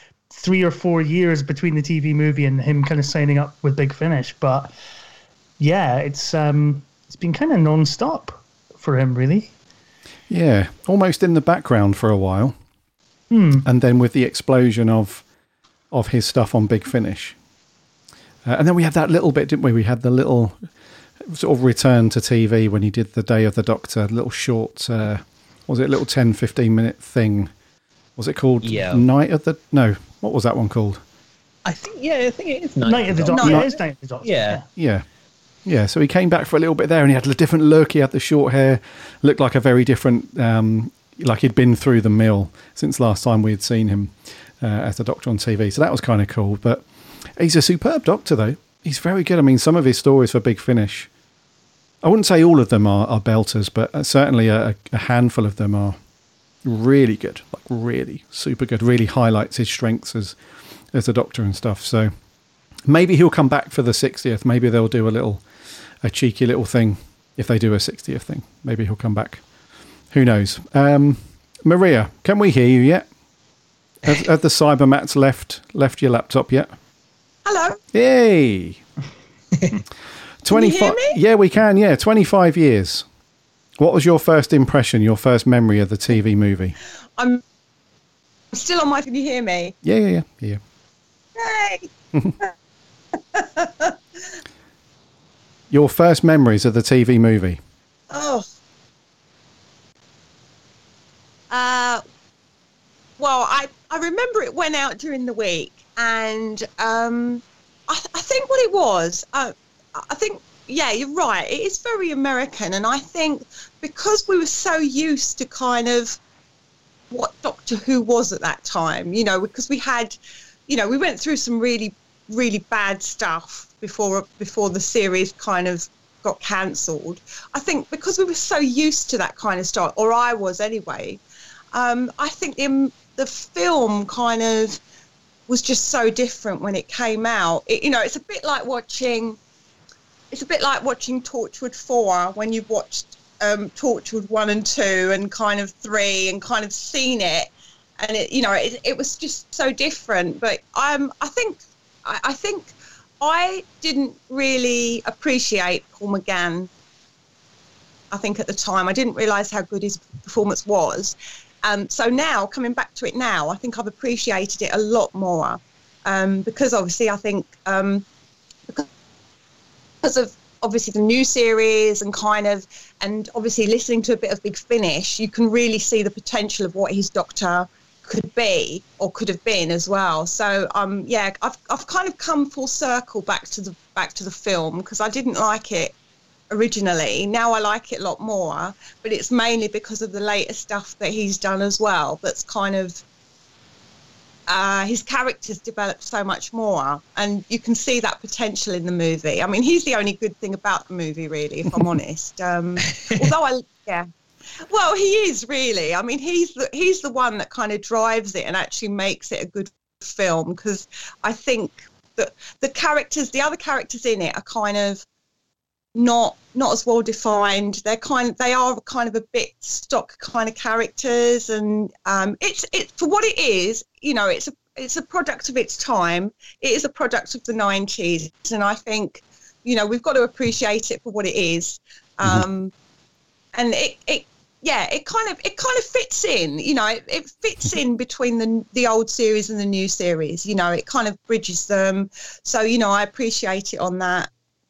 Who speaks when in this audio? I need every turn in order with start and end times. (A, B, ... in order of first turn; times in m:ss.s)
0:00.3-0:04.7 A
0:05.6-0:09.5 A
0:10.3-0:12.6 B
0:13.3-0:13.6 A
0:13.6-0:15.2 B
0:15.9-0:17.4 B
0:18.4-0:20.6 B
0:21.2-0:27.5 B
0:28.2-0:31.0 B
0:28.6-0:29.0 C
0:31.6-0:33.7 C
0:32.8-0:34.6 A
0:33.3-0:33.6 D
0:34.2-0:34.6 C
0:34.8-0:35.0 B
0:35.6-0:46.8 B
0:47.4-0:51.1 B
0:52.0-0:56.0 B
0:56.6-1:00.4 B
1:00.9-1:02.1 B
1:02.8-1:05.4 B
1:06.0-1:09.4 B
1:10.1-1:13.1 B
1:14.0-1:16.7 B
1:17.4-1:17.8 D
1:17.9-1:18.8 B
1:20.4-1:23.0 B
1:20.5-1:21.2 D
1:23.8-1:26.8 B
1:28.5-1:29.7 D
1:29.8-1:30.6 B
1:31.4-1:32.5 D
1:33.2-1:34.4 D
1:35.7-1:37.6 B
1:38.1-1:38.4 D
1:41.5-1:42.0 D
1:43.2-1:56.2 D
1:57.1-2:00.2 D
2:00.7-2:11.2 D
2:11.7-2:14.8 D
2:15.5-2:19.4 D
2:20.3-2:36.7 D
2:38.1-2:48.0 D
2:50.0-3:05.9 D
3:06.5-3:13.0 D
3:14.5-3:24.1 D
3:24.7-3:35.0 D
3:35.9-3:52.7 D
3:53.5-4:04.3 D